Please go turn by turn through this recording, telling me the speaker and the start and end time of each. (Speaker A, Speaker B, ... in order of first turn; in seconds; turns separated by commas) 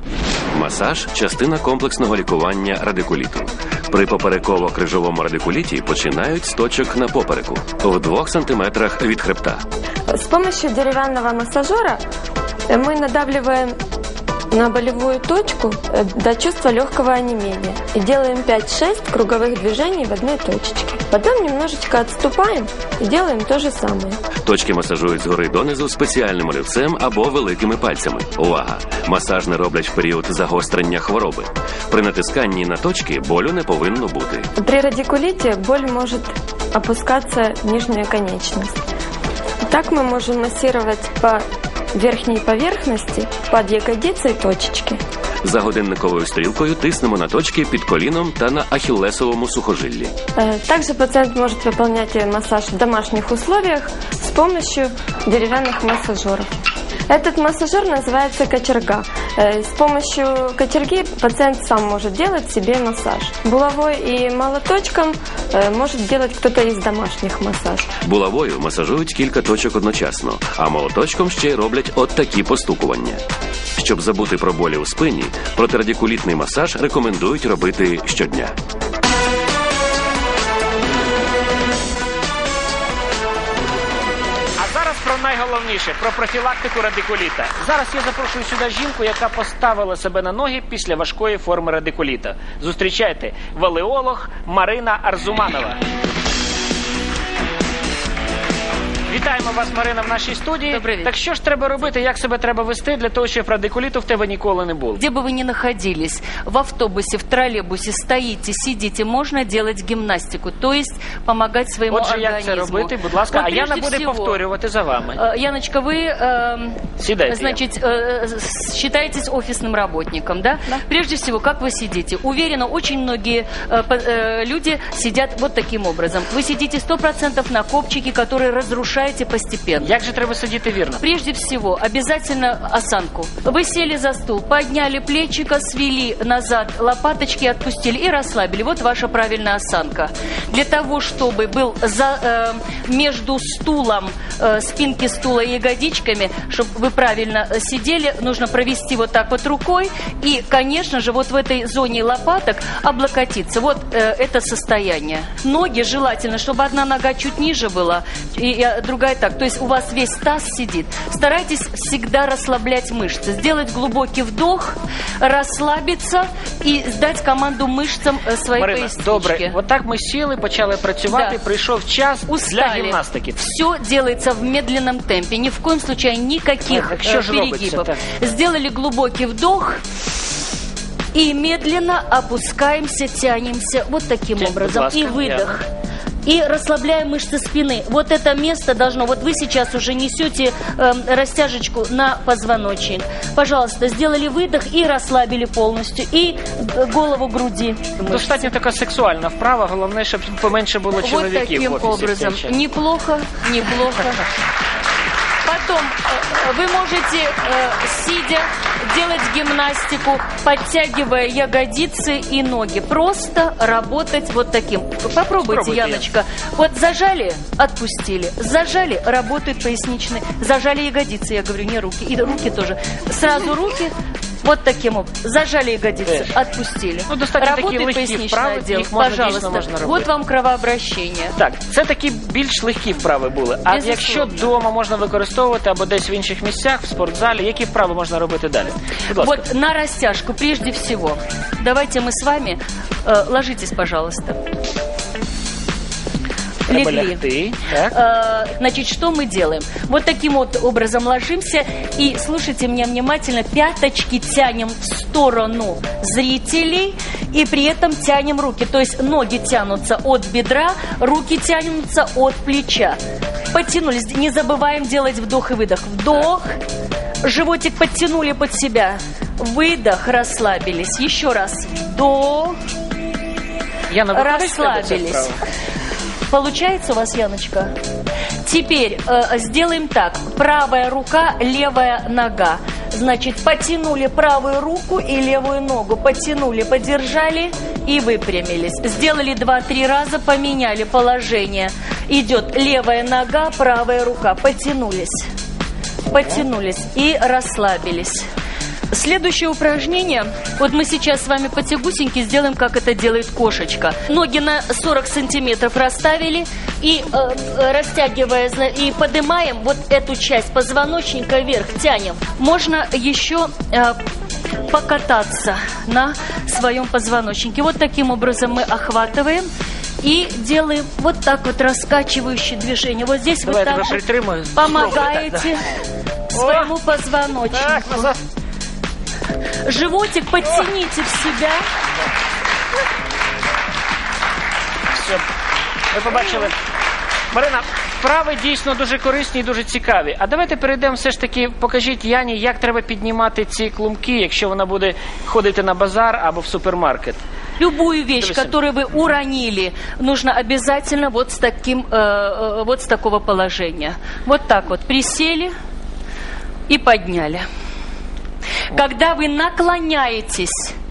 Speaker A: 0.5-9.6, Speaker B: 10.1-12.0, Speaker B: 12.7-13.8, Speaker B: 14.5-24.2, Speaker A: 24.4-34.5, Speaker B: 34.6-38.7, Speaker B: 39.6-45.0, Speaker A: 45.4-50.1, Speaker B: 50.4-56.5, Speaker B: 57.1-67.9, Speaker A: 68.0-73.2, Speaker A: 73.8-78.5, Speaker C: 84.6-95.8, Speaker C: 99.1-105.0, Speaker D: 100.7-101.1, Speaker D: 105.0-114.4, Speaker C: 111.9-115.2, Speaker D: 115.2-129.9, Speaker C: 117.0-117.6, Speaker C: 129.8-131.0, Speaker D: 131.0-169.6, Speaker C: 168.6-173.4, Speaker D: 171.1-171.4, Speaker D: 172.3-179.8, Speaker C: 176.7-178.0, Speaker D: 181.1-185.6, Speaker C: 184.4-185.6, Speaker D: 186.2-198.5, Speaker C: 198.1-202.5, Speaker D: 201.0-204.2, Speaker D: 205.4-231.3, Speaker C: 215.4-216.1, Speaker C: 227.1-230.1, Speaker C: 231.4-239.4, Speaker D: 233.7-234.5, Speaker D: 239.2-244.4, Speaker D: 246.7-247.3, Speaker C: 246.7-247.9, Speaker D: 247.9-263.0, Speaker D: 263.5-266.6, Speaker D: 267.2-272.6, Speaker C: 273.9-275.4, Speaker D: 274.1-275.3, Speaker D: 276.3-277.7, Speaker D: 278.4-295.3, Speaker D: 296.1-298.2, Speaker D: 298.9-314.0, Speaker D: 314.6-319.4, Speaker D: 320.0-324.0, Speaker C: 323.4-325.5, Speaker D: 324.5-325.8, Speaker D: 326.3-328.1, Speaker C: 326.3-326.7, Speaker C: 327.5-328.2, Speaker D: 329.6-331.6, Speaker C: 335.0-335.2, Speaker C: 335.9-336.5, Speaker C: 337.3-347.2, Speaker D: 347.6-355.5, Speaker C: 348.2-348.5, Speaker D: 356.7-357.4, Speaker D: 358.7-360.7